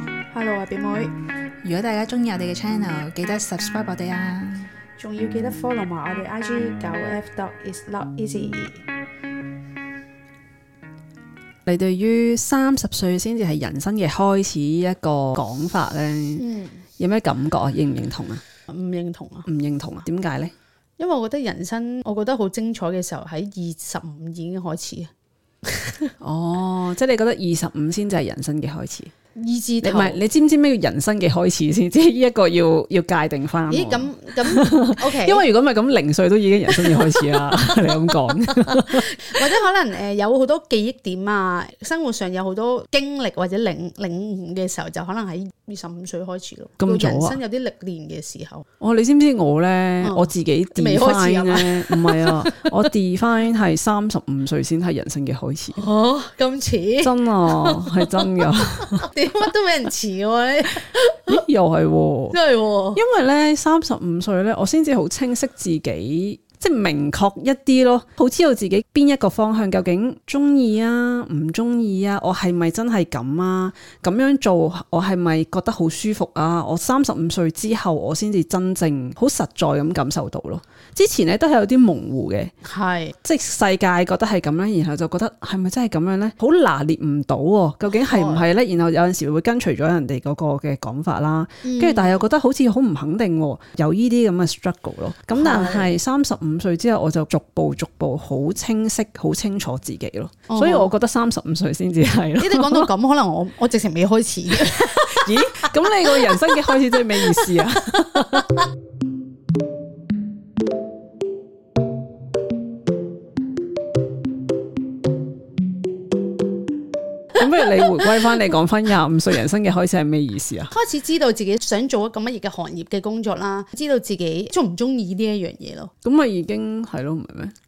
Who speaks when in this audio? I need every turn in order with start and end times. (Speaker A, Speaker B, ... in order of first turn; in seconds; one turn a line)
Speaker A: 0.3-1.1
Speaker B: 1.6-4.6
Speaker C: 1.7-3.0
Speaker A: 5.0-8.8
Speaker C: 11.7-16.4
Speaker A: 16.4-16.8
Speaker C: 17.0-18.4
Speaker A: 18.7-19.4
Speaker C: 19.4-20.5
Speaker A: 21.0-25.1
Speaker A: 25.6-26.1
Speaker C: 26.2-29.1
Speaker A: 29.3-30.2
Speaker C: 29.8-39.4
Speaker A: 33.7-35.4
Speaker A: 36.9-37.2
Speaker A: 39.2-48.6
Speaker C: 46.8-47.4
Speaker C: 48.8-55.9
Speaker A: 50.0-52.6
Speaker A: 55.7-58.3
Speaker C: 57.0-59.1
Speaker A: 58.9-61.4
Speaker C: 61.3-62.4
Speaker A: 62.3-63.0
Speaker C: 62.9-82.5
Speaker A: 82.6-83.2
Speaker C: 83.2-102.9
Speaker A: 87.9-88.5
Speaker A: 91.6-92.2
Speaker A: 95.3-95.9
Speaker A: 100.5-100.9
Speaker A: 102.4-106.5
Speaker C: 104.5-108.6
Speaker C: 117.3-120.7
Speaker A: 120.7-125.9
Speaker C: 126.0-127.5